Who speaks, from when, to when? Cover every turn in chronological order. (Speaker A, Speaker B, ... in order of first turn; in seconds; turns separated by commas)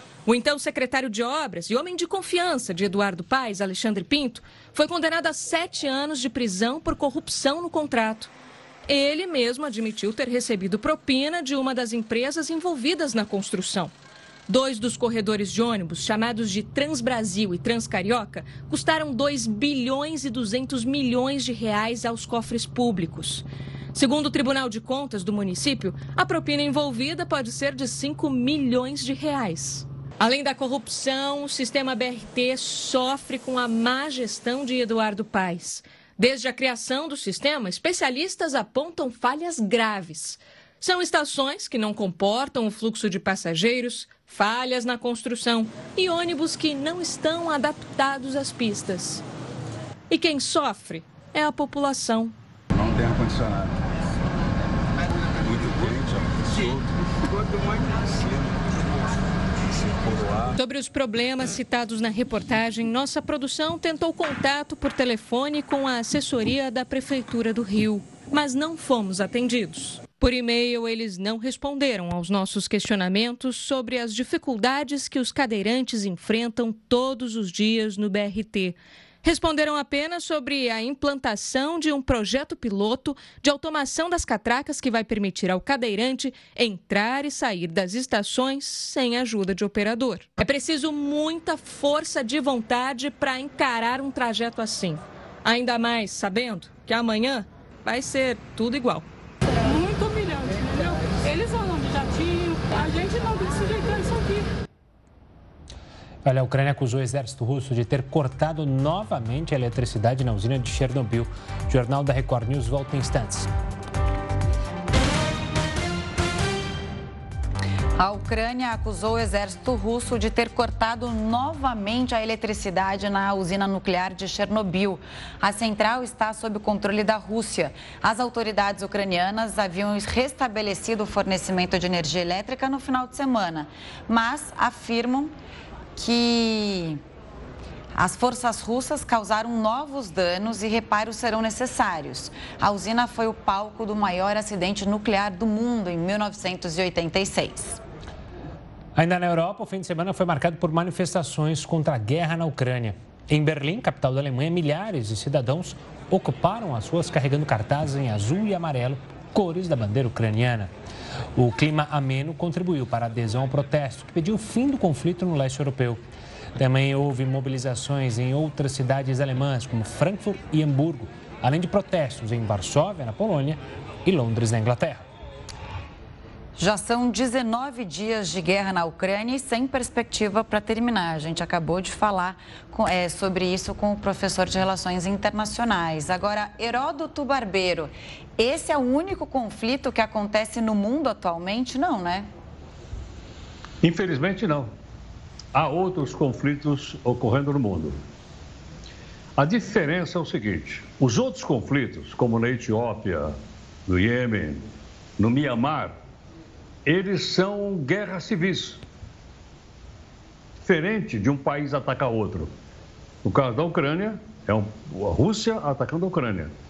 Speaker A: 0.2-8.3, Speaker A: 8.9-13.9, Speaker A: 14.5-49.2, Speaker A: 50.1-52.3, Speaker B: 52.7-53.8, Speaker B: 55.4-58.9, Speaker B: 59.7-60.5, Speaker A: 60.5-99.1, Speaker C: 99.5-104.5, Speaker D: 106.2-113.5, Speaker E: 118.0-135.3, Speaker E: 135.9-137.0, Speaker E: 137.9-147.8, Speaker D: 148.9-160.7, Speaker D: 161.3-166.0, Speaker D: 166.6-175.0, Speaker E: 176.6-192.3, Speaker F: 193.8-194.7, Speaker F: 195.5-198.0, Speaker F: 199.4-206.0, Speaker F: 206.8-208.8, Speaker F: 210.6-212.5, Speaker F: 213.2-216.5